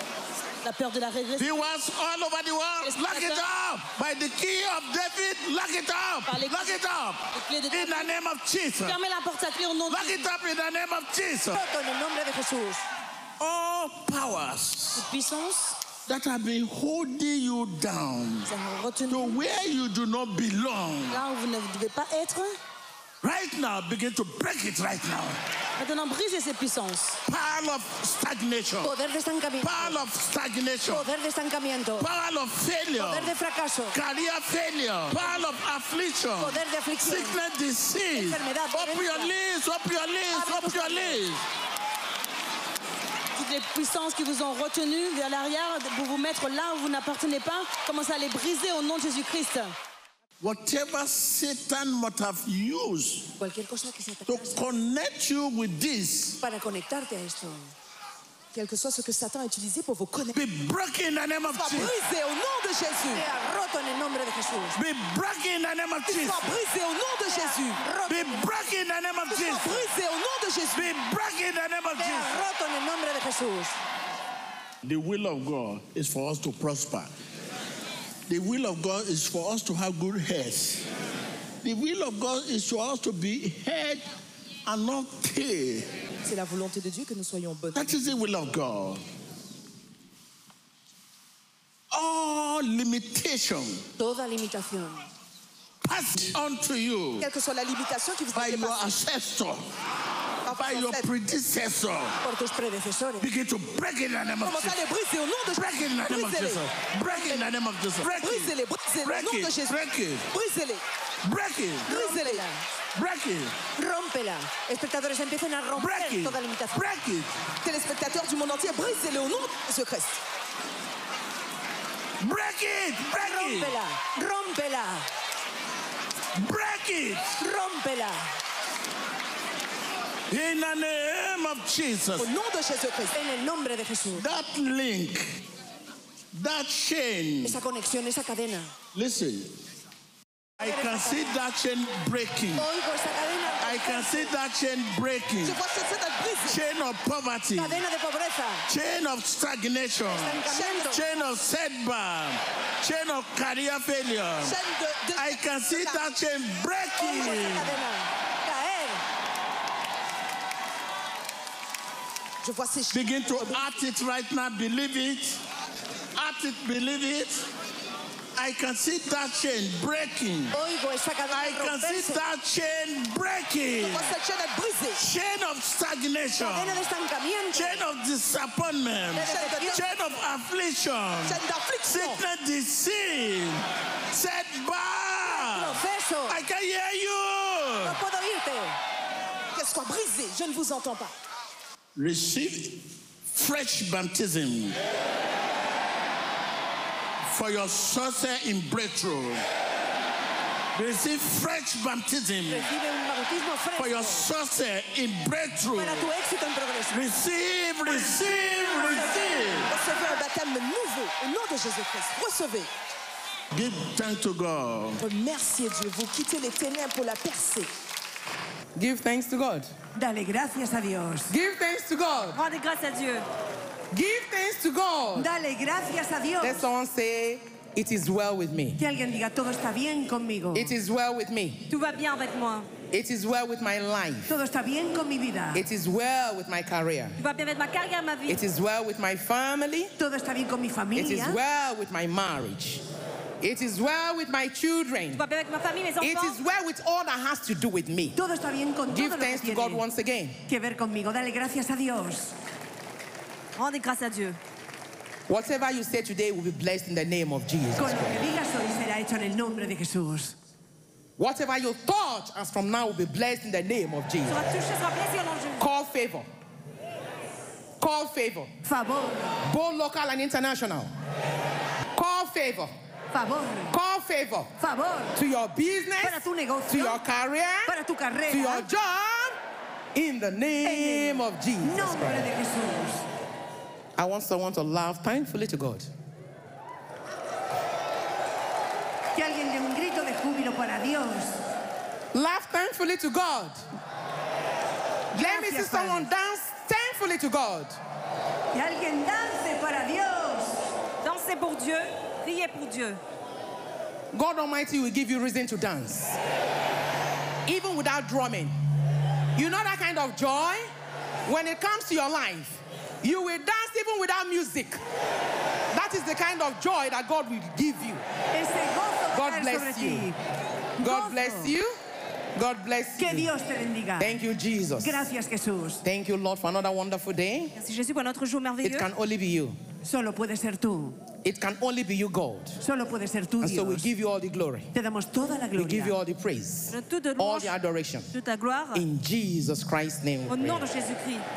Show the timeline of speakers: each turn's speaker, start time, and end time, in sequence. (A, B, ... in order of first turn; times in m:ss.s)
0:00.6-0:01.6 A
0:01.4-0:09.0 B
0:02.8-0:03.4 A
0:06.3-0:06.8 A
0:07.3-0:08.2 A
0:08.8-0:10.3 A
0:09.9-0:11.6 B
0:11.5-0:12.8 C
0:13.4-0:15.1 B
0:15.0-0:15.8 A
0:16.1-0:18.5 B
0:18.5-0:19.4 A
0:19.1-0:21.2 B
0:21.1-0:22.6 A
0:23.2-0:25.4 B
0:25.8-0:27.2 A
0:27.3-0:29.0 B
0:28.8-0:30.0 C
0:29.6-0:31.1 B
0:30.8-0:32.1 C
0:32.0-0:33.4 B
0:32.9-0:34.0 C
0:33.9-0:41.4 B
0:36.4-0:37.4 C
0:38.1-0:39.3 C
0:40.3-0:41.2 C
0:43.4-0:49.7 A
0:50.4-0:53.3 B
0:53.4-0:54.7 C
0:54.3-0:56.4 B
0:56.4-0:57.7 C
0:58.5-1:00.4 D
1:00.3-1:01.9 B
1:01.5-1:03.3 D
1:03.1-1:04.8 C
1:04.7-1:06.6 B
1:06.0-1:07.8 D
1:07.3-1:08.5 C
1:08.1-1:09.9 B
1:09.3-1:10.9 D
1:10.7-1:12.4 B
1:12.0-1:13.8 C
1:14.8-1:17.1 B
1:18.3-1:20.9 B
1:21.6-1:24.1 B
1:24.7-1:25.9 B
1:26.2-1:28.1 D
1:27.7-1:29.0 B
1:31.9-1:33.8 B
1:34.0-1:35.1 C
1:35.8-1:37.3 B
1:37.2-1:38.9 D
1:38.3-1:39.7 B
1:40.4-1:41.1 D
1:40.5-1:42.2 B
1:42.2-1:43.3 C
1:43.2-1:44.8 B
1:44.4-1:47.4 D
1:45.5-1:50.3 B
1:48.0-1:50.8 D
1:51.2-1:51.9 B
1:51.9-1:52.6 C
1:51.9-1:52.5 D
1:53.0-1:53.6 B
1:53.8-1:56.9 C
1:55.8-1:57.3 B
1:57.6-2:00.2 D
2:02.2-2:03.8 B
2:03.1-2:05.1 C
2:06.4-2:07.3 B
2:07.4-2:08.3 C
2:10.3-2:12.3 B
2:12.2-2:13.2 D
2:13.1-2:14.3 C
2:14.1-2:15.4 B
2:16.3-2:17.6 B
2:17.4-2:18.8 C
2:18.9-2:19.5 B
2:20.6-2:22.7 B
2:20.6-2:21.2 C
2:22.6-2:24.4 C
2:23.6-2:25.6 B
2:25.4-2:26.6 D
2:26.4-2:27.8 B
2:27.6-2:28.7 C
2:28.7-2:34.6 B
2:30.1-2:31.0 C
2:34.4-2:36.0 D
2:35.2-2:37.8 B
2:37.0-2:39.0 C
2:42.4-2:43.7 D
2:42.9-2:45.4 B
2:46.2-2:47.5 B
2:48.4-2:50.5 B
2:50.5-2:52.2 C
2:51.3-2:54.2 B
2:53.7-2:55.1 D
2:55.0-2:56.8 B
2:56.4-2:57.8 C
2:57.5-3:08.0 B
2:59.2-2:59.9 C
2:59.2-2:59.8 D
3:01.2-3:02.2 D
3:05.2-3:06.4 C
3:07.8-3:08.8 C
3:09.5-3:11.1 D
3:12.0-3:14.8 B
3:17.2-3:19.4 B
3:20.8-3:22.7 B
3:22.5-3:24.3 C
3:23.8-3:26.1 B
3:25.7-3:27.0 C
3:26.9-3:29.7 B
3:28.9-3:29.1 D
3:29.6-3:32.7 D
3:33.5-3:35.0 B
3:35.0-3:37.7 D
3:38.8-3:39.7 E
3:40.0-3:41.3 C
3:41.3-3:42.4 E
3:42.3-3:43.3 F
3:43.9-3:45.3 E
3:45.1-3:46.6 C
3:46.4-3:48.8 E
3:48.8-3:50.7 C
3:50.5-3:51.7 E
3:51.7-3:52.7 F
3:52.9-3:54.4 E
3:54.3-3:55.6 C
3:55.5-3:57.2 E
3:57.2-3:58.4 F
3:58.3-3:59.9 E
4:00.0-4:01.4 C
4:01.0-4:02.8 E
4:03.4-4:05.2 E
4:05.2-4:06.4 F
4:06.0-4:08.2 E
4:08.2-4:09.8 C
4:08.9-4:10.4 E
4:10.5-4:12.4 C
4:13.6-4:14.4 F
4:15.3-4:18.3 E
4:17.8-4:20.4 C
4:21.2-4:24.5 E
4:24.3-4:25.7 F
4:25.6-4:26.3 E
4:27.8-4:28.5 E
4:28.6-4:29.4 C
4:29.4-4:30.9 E
4:32.0-4:32.7 E
4:33.1-4:33.8 C
4:33.7-4:34.5 E
4:34.6-4:35.2 C
4:35.2-4:37.8 E
4:36.0-4:37.0 C
4:37.7-4:38.7 C
4:38.3-4:39.4 E
4:40.0-4:42.3 E
4:40.6-4:43.1 C
4:44.0-4:45.9 E
4:49.1-4:51.4 C
4:52.1-4:53.6 E
4:55.1-4:56.1 C
4:55.2-4:57.8 E
4:58.5-5:00.6 C
5:01.0-5:03.0 F
5:04.1-5:06.2 E
5:07.5-5:08.5 E
5:09.4-5:10.7 E
5:11.3-5:14.8 E
5:15.7-5:18.0 E
5:18.3-5:20.2 C
5:19.1-5:20.1 E
5:20.8-5:21.5 C
5:20.8-5:21.8 E
5:22.4-5:23.3 E
5:23.0-5:24.2 C
5:24.0-5:25.0 E
5:24.8-5:25.8 C
5:25.8-5:27.5 E
5:27.6-5:28.9 F
5:28.6-5:29.6 E
5:29.8-5:31.0 C
5:31.2-5:32.6 E
5:32.6-5:33.9 C
5:33.4-5:34.7 E
5:34.7-5:36.0 C
5:35.6-5:38.1 E
5:36.7-5:37.5 F
5:38.1-5:38.9 F
5:38.7-5:40.7 E
5:40.3-5:41.3 F